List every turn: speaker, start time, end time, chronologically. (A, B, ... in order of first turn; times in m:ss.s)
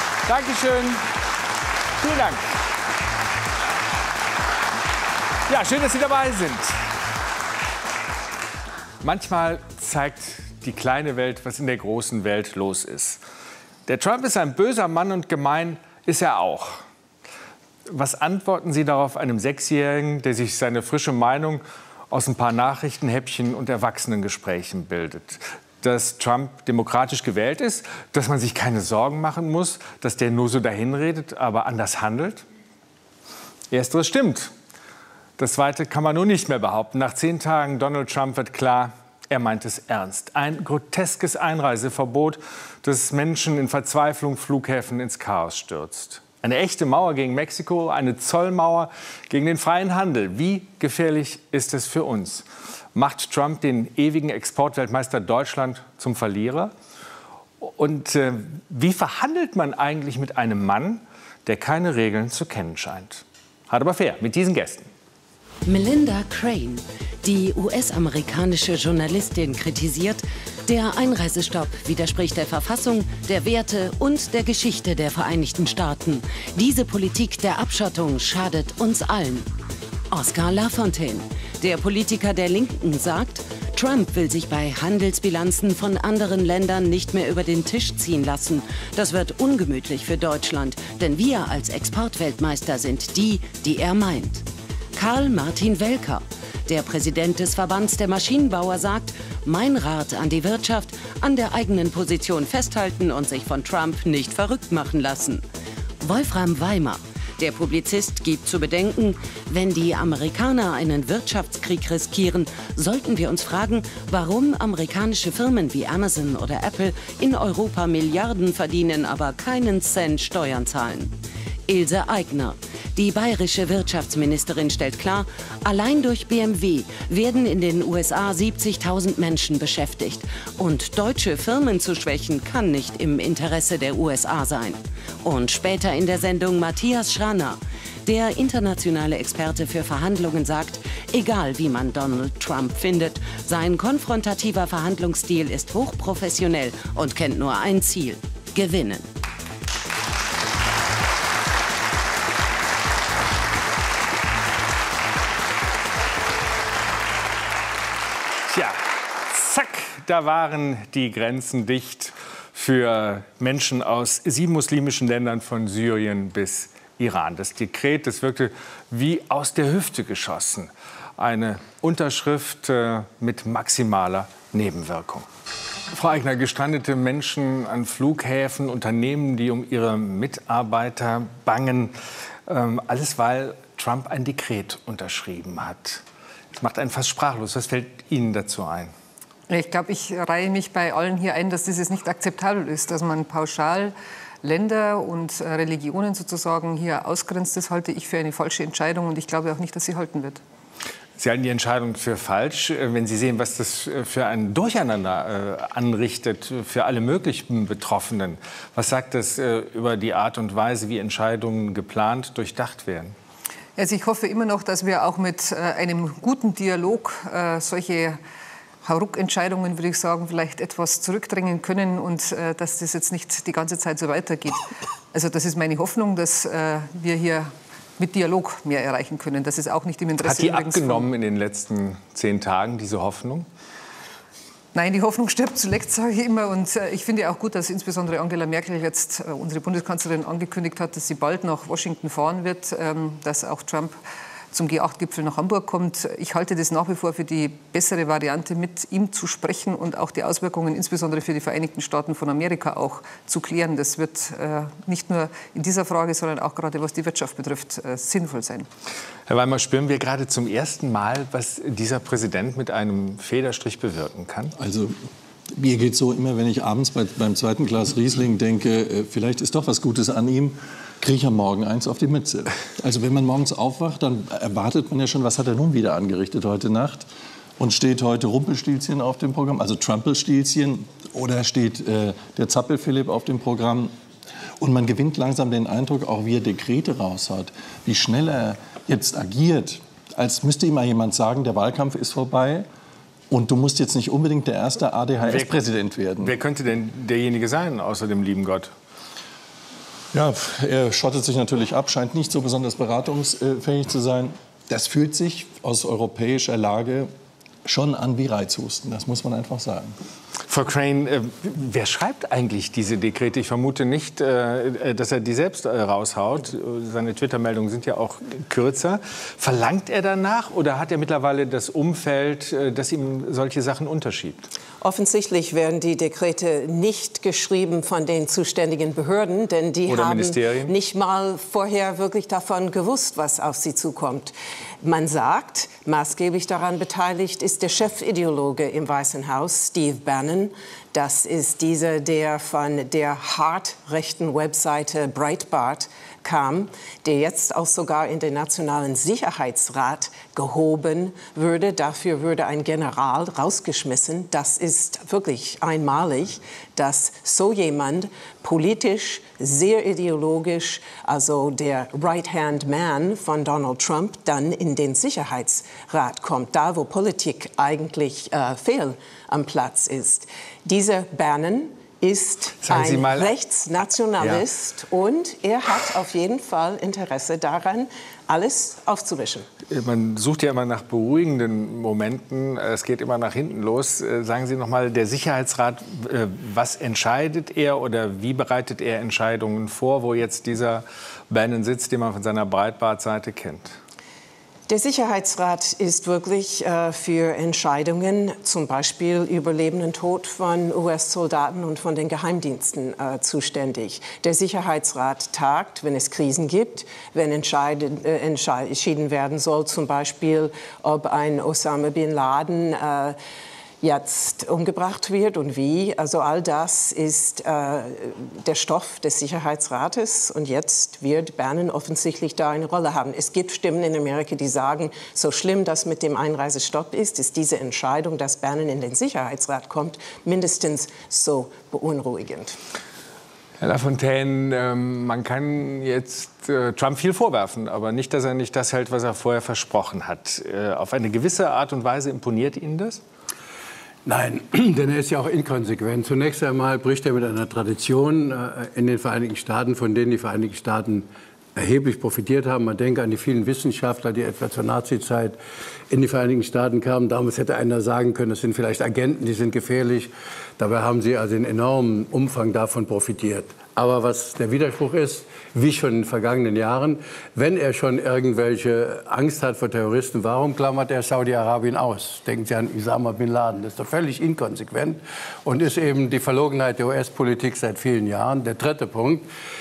0:00.2-0:01.0 A
0:02.0-0:02.5 A
0:05.5-0:06.8 A
0:09.0-0:13.2 A
0:13.9-0:16.8 A
0:17.9-0:32.4 A
0:33.7-0:34.5 A
0:35.4-0:56.7 A
0:57.6-1:04.9 A
1:05.6-1:19.5 B
1:20.1-1:34.4 B
1:35.0-1:45.4 B
1:46.0-2:01.1 B
2:01.7-2:29.1 B
2:38.5-2:55.2 A
2:55.9-3:01.9 A
3:02.5-3:06.0 A
3:06.5-3:08.9 A
3:09.5-3:20.4 C
3:21.2-3:33.1 A
3:33.8-3:38.2 C
3:38.8-3:51.1 C
3:50.2-3:53.4 A
3:54.7-4:04.0 C
4:04.5-4:18.7 C
4:19.3-4:24.5 A
4:24.6-4:24.9 D
4:25.5-4:37.1 D
4:37.6-4:43.9 D
4:44.6-4:52.6 D
4:53.3-4:56.3 D
4:55.2-4:55.6 A
4:56.2-4:58.7 A
5:00.1-5:07.1 D
5:07.6-5:09.9 D
5:10.5-5:24.5 A
5:24.8-6:19.5 E
5:29.9-5:30.7 A
6:12.6-6:13.3 A
6:14.2-6:14.4 A
6:19.7-6:33.8 A
6:34.7-6:53.2 E
6:53.8-7:12.6 E
7:13.6-7:23.0 A
7:24.0-7:35.4 F
7:35.9-7:59.2 F